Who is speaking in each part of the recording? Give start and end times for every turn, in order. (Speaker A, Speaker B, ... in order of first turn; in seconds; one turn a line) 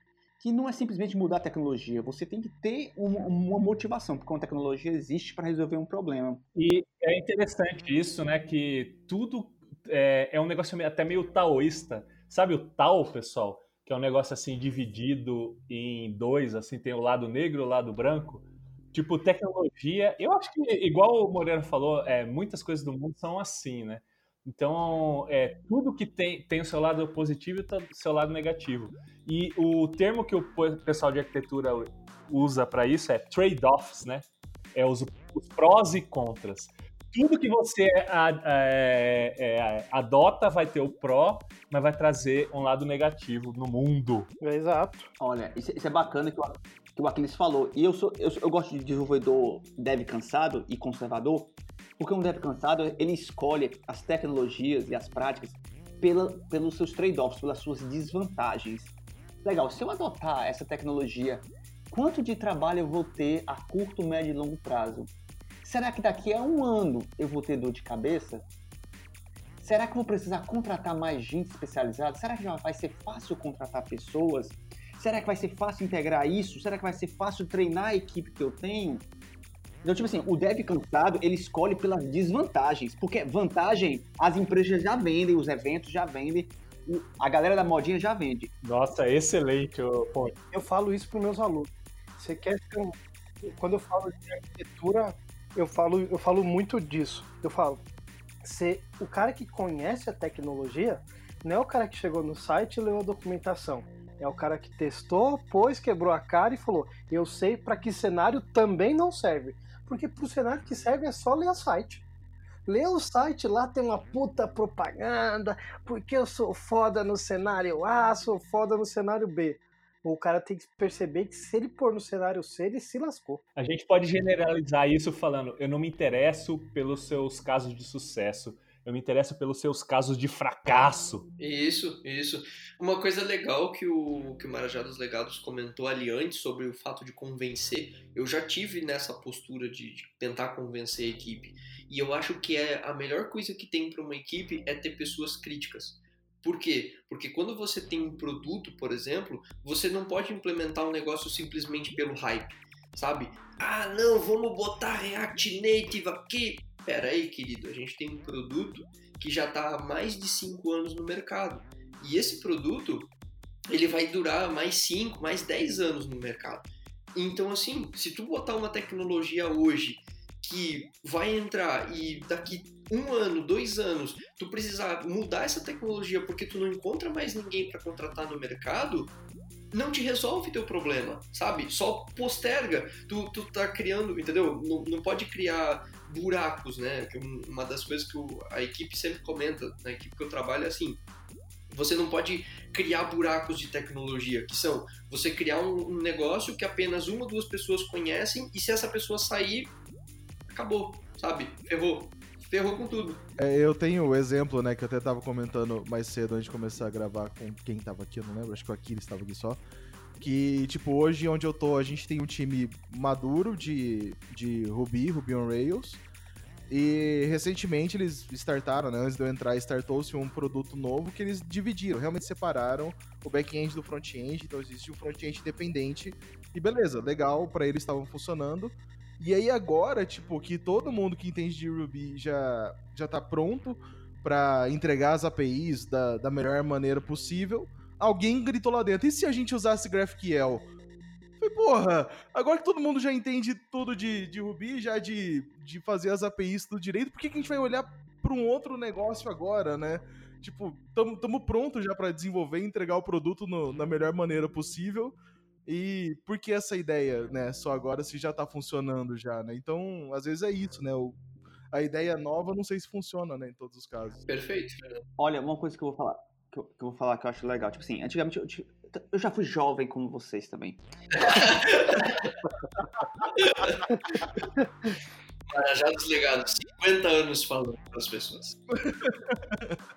Speaker A: 0.4-6.4
Speaker B: 6.5-44.3
Speaker C: 44.4-45.1
Speaker A: 45.2-65.1
Speaker A: 65.6-68.5
Speaker A: 69.6-79.0
Speaker A: 79.8-88.5
Speaker B: 88.6-90.4
Speaker C: 90.5-97.8
Speaker C: 98.4-112.0
Speaker C: 112.7-123.4
Speaker B: 123.6-131.3
Speaker D: 131.4-163.1
Speaker D: 163.7-179.1
Speaker D: 179.7-191.0
Speaker D: 191.7-199.7
Speaker D: 200.5-203.2
Speaker E: 203.4-209.6
Speaker E: 210.2-216.0
Speaker E: 216.7-240.7
Speaker E: 241.4-255.2
Speaker E: 255.7-261.2
Speaker E: 261.7-264.2
Speaker D: 264.3-264.9
Speaker A: 265.2-270.8
Speaker D: 271.2-272.3
Speaker D: 273.4-273.8
Speaker D: 275.5-278.6
Speaker E: 278.7-279.8